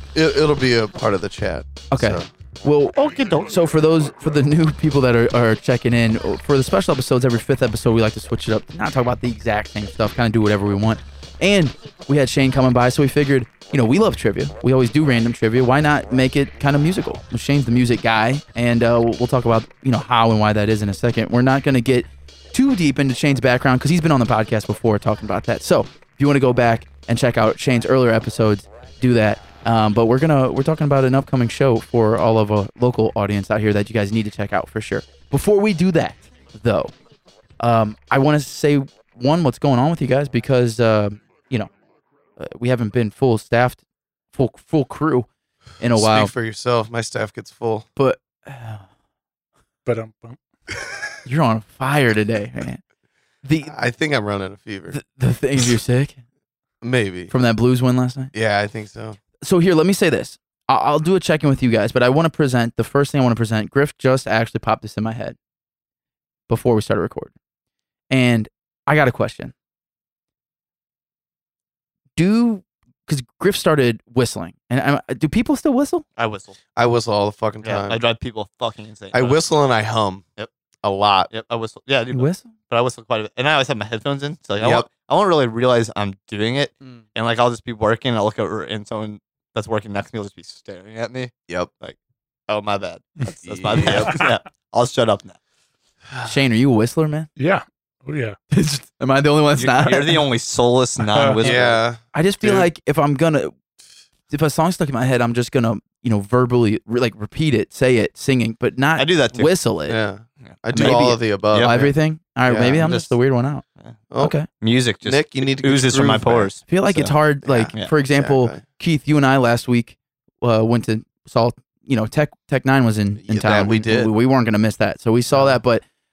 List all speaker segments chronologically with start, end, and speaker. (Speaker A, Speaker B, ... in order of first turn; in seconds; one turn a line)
Speaker A: 0.1-2.3
Speaker B: 1.9-36.9
Speaker C: 3.0-3.5
Speaker B: 37.6-41.7
Speaker B: 42.4-43.8
Speaker B: 44.3-45.3
Speaker B: 45.8-46.3
Speaker A: 45.9-47.9
Speaker B: 48.0-48.8
Speaker D: 49.9-50.4
Speaker B: 51.2-52.8
Speaker B: 53.4-53.7
Speaker A: 53.7-55.0
Speaker B: 54.9-56.2
Speaker A: 56.8-57.3
Speaker B: 57.3-58.3
Speaker A: 58.3-59.2
Speaker B: 59.4-65.4
Speaker B: 66.5-67.3
Speaker B: 68.1-69.5
Speaker B: 72.2-76.0
Speaker C: 76.2-76.6
Speaker A: 76.8-78.0
Speaker C: 77.6-79.4
Speaker A: 79.1-80.2
Speaker A: 80.8-81.3
Speaker C: 81.3-92.0
Speaker B: 82.1-82.5
Speaker A: 84.6-84.9
Speaker C: 92.5-95.4
Speaker A: 93.5-94.2
Speaker D: 93.8-94.3
Speaker B: 96.2-97.3
Speaker D: 97.4-98.4
Speaker B: 98.5-100.2
Speaker C: 99.6-101.8
Speaker D: 101.1-101.4
Speaker A: 101.4-102.7
Speaker B: 102.1-103.5
Speaker B: 104.3-110.0
Speaker C: 109.0-109.5
Speaker A: 109.9-111.9
Speaker C: 110.5-111.8
Speaker B: 110.7-113.6
Speaker A: 112.5-112.9
Speaker C: 112.8-113.2
Speaker A: 114.1-114.4
Speaker B: 114.2-114.5
Speaker C: 114.6-117.1
Speaker A: 115.0-116.5
Speaker B: 116.7-125.8
Speaker A: 117.4-118.6
Speaker A: 123.2-124.1